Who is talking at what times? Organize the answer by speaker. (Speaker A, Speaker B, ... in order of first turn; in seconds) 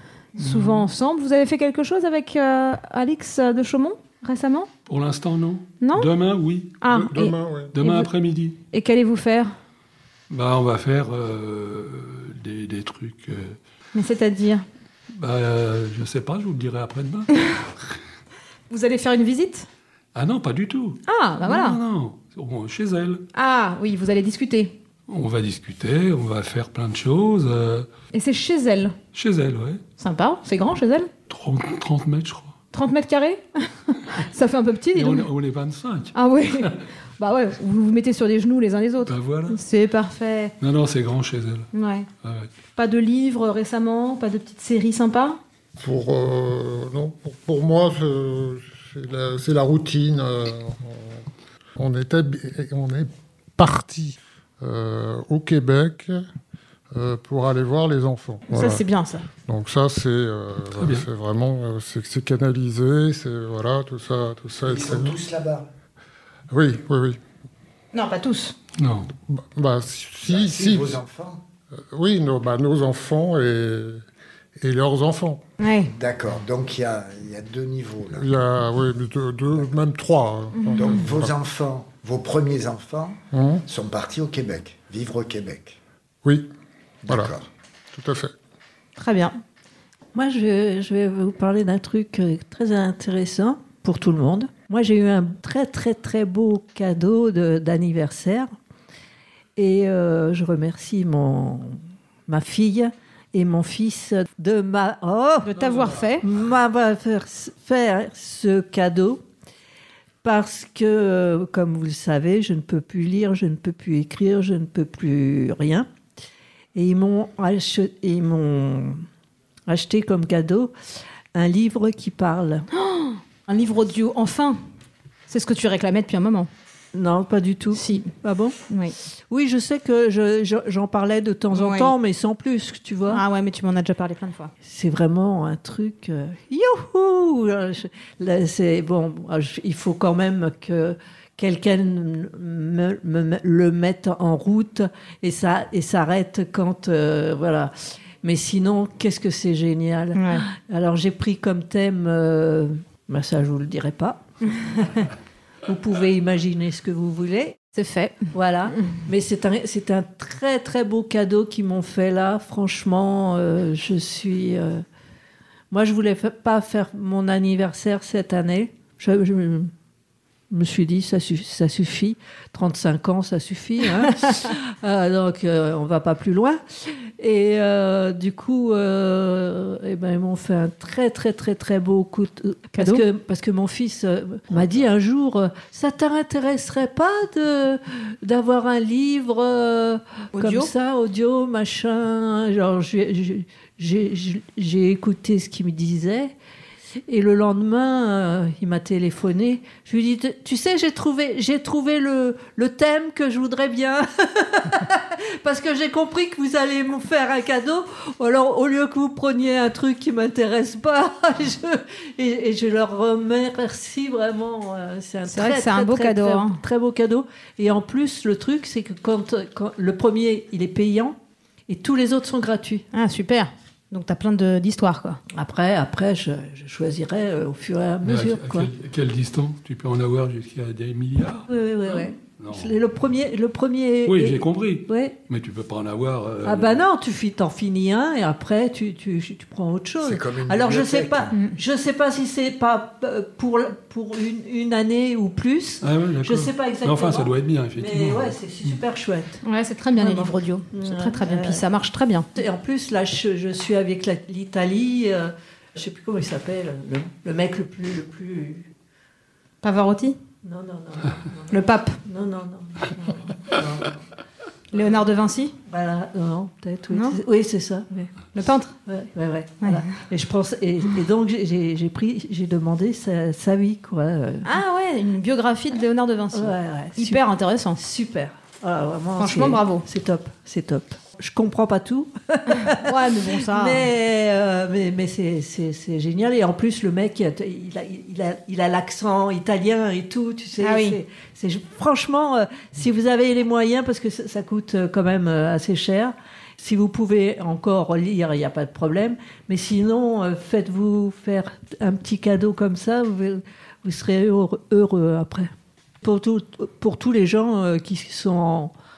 Speaker A: 0.4-0.9, 4.9-6.8, 7.7-8.6, 10.3-13.6, 15.1-17.3, 20.1-23.2, 25.1-27.9, 29.1-29.8, 31.3-32.5, 34.9-36.8, 39.0-39.6, 40.6-41.7, 42.2-42.5, 60.8-61.1, 68.8-69.1, 228.0-232.8, 234.1-236.8, 245.8-248.8
Speaker B: 0.4-4.7, 5.8-6.1, 6.8-8.1, 8.7-9.5, 13.9-14.7, 18.7-19.7, 21.1-21.8, 23.3-24.8, 28.1-29.0, 30.0-31.1, 32.7-35.3, 36.1-40.5, 41.7-42.1, 42.8-45.4, 58.5-59.3, 67.9-68.6, 75.6-75.9, 80.6-81.0, 89.0-89.4, 105.4-106.2, 122.7-124.6, 125.3-126.5, 127.7-128.1, 128.7-128.9, 131.5-131.9, 133.1-134.5, 150.2-150.5, 154.6-154.9, 157.8-158.3, 182.7-183.0, 190.3-190.7, 215.3-216.6, 222.9-225.2, 249.4-252.3, 259.6-260.2, 261.5-262.0, 264.7-265.6, 266.9-267.2, 268.4-268.7, 274.4-277.8, 279.2-279.9, 282.6-283.9, 290.6-291.0
Speaker C: 6.9-7.8, 45.8-51.2, 51.8-56.2, 56.9-58.9, 59.4-65.2, 66.5-67.2, 69.3-71.0, 71.9-74.0, 74.6-75.4, 78.2-81.3, 83.3-83.6, 86.2-86.5, 87.1-87.3, 87.9-88.3
Speaker D: 64.7-65.7, 70.2-71.4, 75.9-78.3, 80.7-85.8, 87.0-87.5, 240.0-241.3
Speaker E: 90.2-98.5, 99.6-105.5, 106.2-109.2, 110.2-115.9, 116.8-119.0, 119.7-120.7, 121.3-122.7, 126.9-128.6, 129.3-133.2, 134.6-154.2, 155.7-157.6, 158.3-164.8, 165.7-169.7, 170.5-196.3, 197.1-221.2, 221.7-222.8, 225.3-228.7, 231.5-235.2, 236.4-249.4, 250.0-251.6, 252.4-258.7, 260.4-264.0, 265.7-268.1, 268.9-274.5, 276.3-277.2, 277.8-305.5, 306.0-308.7